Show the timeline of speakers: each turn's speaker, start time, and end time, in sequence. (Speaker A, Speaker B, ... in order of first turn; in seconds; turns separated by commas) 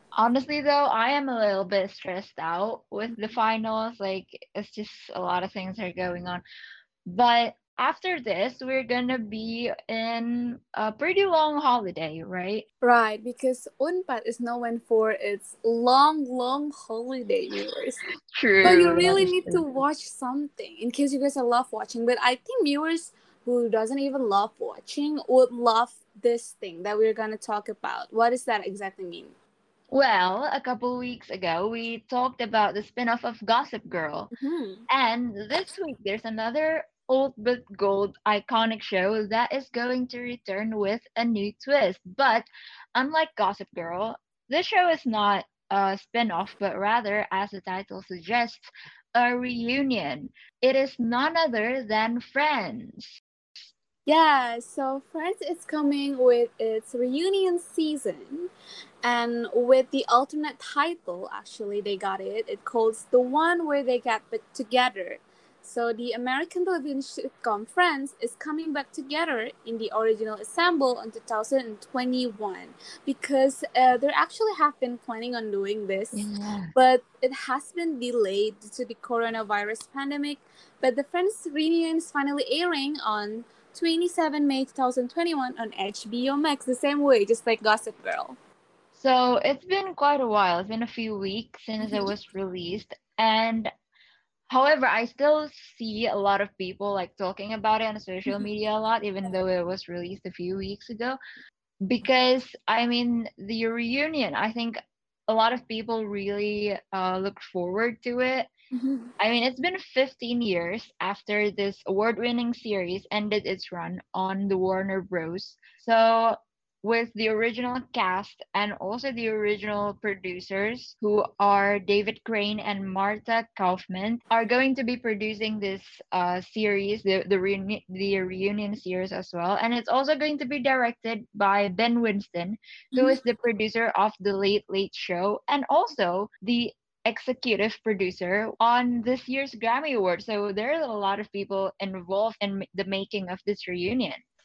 Speaker A: 0.1-6.4, Speaker A: 7.1-12.6, Speaker B: 12.8-18.0, Speaker A: 18.3-19.7, Speaker B: 18.6-29.3, Speaker A: 29.9-34.3, Speaker B: 34.3-34.8, Speaker A: 34.9-53.2, Speaker B: 54.0-58.5, Speaker B: 59.0-88.4, Speaker A: 76.1-76.7, Speaker A: 88.9-93.7, Speaker B: 91.8-92.1, Speaker A: 94.5-101.2, Speaker A: 101.8-108.5, Speaker B: 108.7-109.1, Speaker A: 109.2-144.2